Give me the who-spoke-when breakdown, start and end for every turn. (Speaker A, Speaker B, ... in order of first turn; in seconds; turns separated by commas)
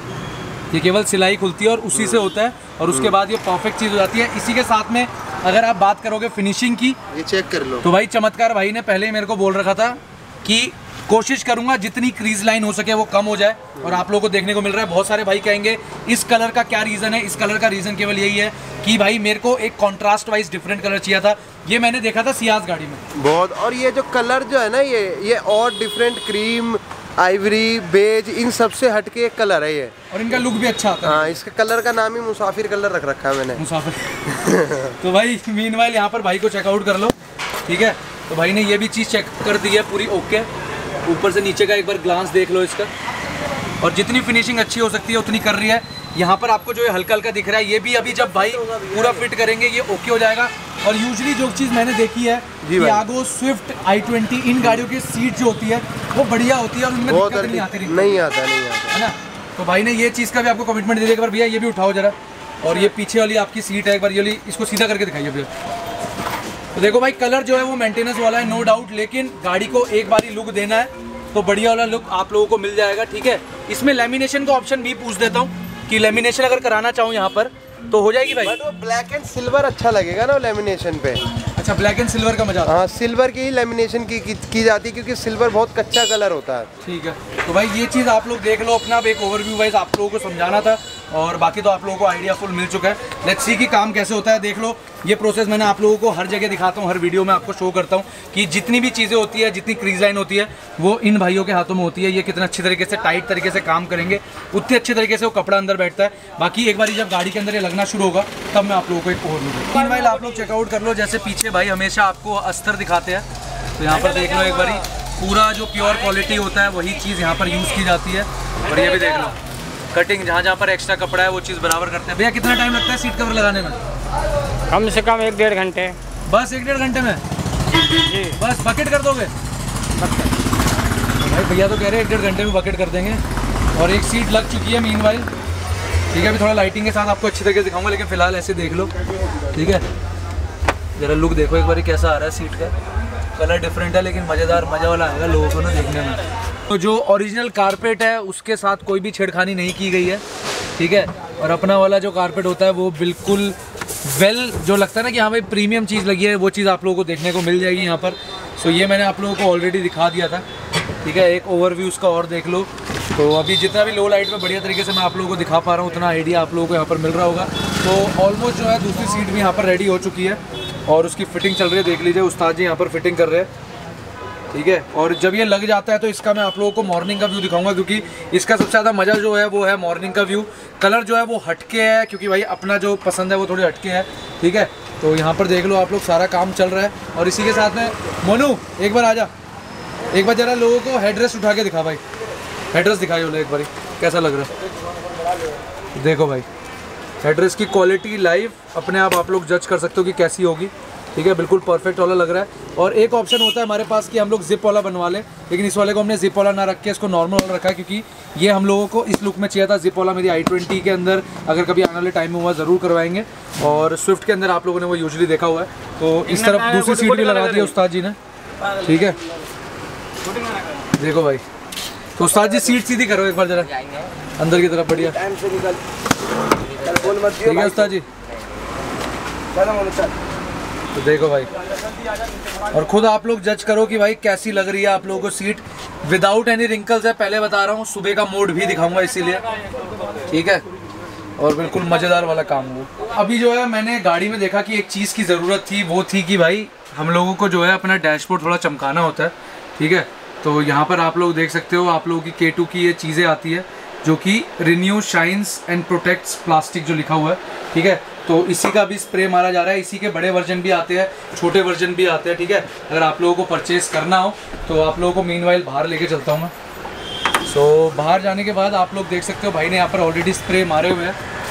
Speaker A: 0.7-7.0, Speaker B: 1.9-2.2, Speaker B: 7.1-7.9, Speaker A: 7.8-23.0, Speaker B: 13.8-14.0, Speaker B: 23.1-29.9, Speaker A: 30.1-31.4, Speaker B: 31.0-33.6, Speaker A: 33.6-34.3, Speaker B: 34.3-35.0, Speaker A: 35.0-37.1, Speaker A: 37.7-40.5, Speaker A: 41.0-42.9, Speaker A: 43.8-58.2, Speaker B: 48.3-49.2, Speaker B: 52.6-53.0, Speaker B: 57.1-59.0, Speaker A: 58.9-65.5, Speaker A: 66.7-78.5, Speaker B: 78.4-81.2, Speaker A: 81.6-82.7, Speaker B: 82.6-86.7, Speaker A: 86.8-113.2, Speaker A: 113.8-119.3, Speaker A: 119.9-123.8, Speaker C: 124.7-126.0, Speaker A: 126.3-127.2, Speaker C: 127.9-128.4, Speaker A: 128.4-129.3, Speaker C: 130.0-130.3, Speaker A: 131.2-133.2, Speaker A: 133.7-135.3, Speaker A: 136.1-138.9, Speaker A: 139.5-139.8, Speaker A: 140.9-142.7, Speaker A: 143.3-150.2, Speaker A: 150.8-160.4, Speaker A: 161.0-173.5, Speaker A: 174.5-189.3, Speaker A: 190.1-192.0, Speaker A: 192.7-194.5, Speaker A: 195.9-196.4, Speaker A: 197.2-218.2, Speaker C: 216.3-217.7, Speaker A: 218.8-219.2, Speaker A: 221.0-221.4, Speaker A: 222.2-223.7, Speaker A: 224.4-225.2, Speaker C: 224.9-225.8, Speaker C: 226.6-227.9, Speaker A: 227.4-228.1, Speaker C: 229.5-230.1, Speaker A: 230.9-231.5, Speaker A: 232.7-239.4, Speaker A: 240.3-240.6, Speaker A: 241.4-266.5, Speaker A: 267.4-271.1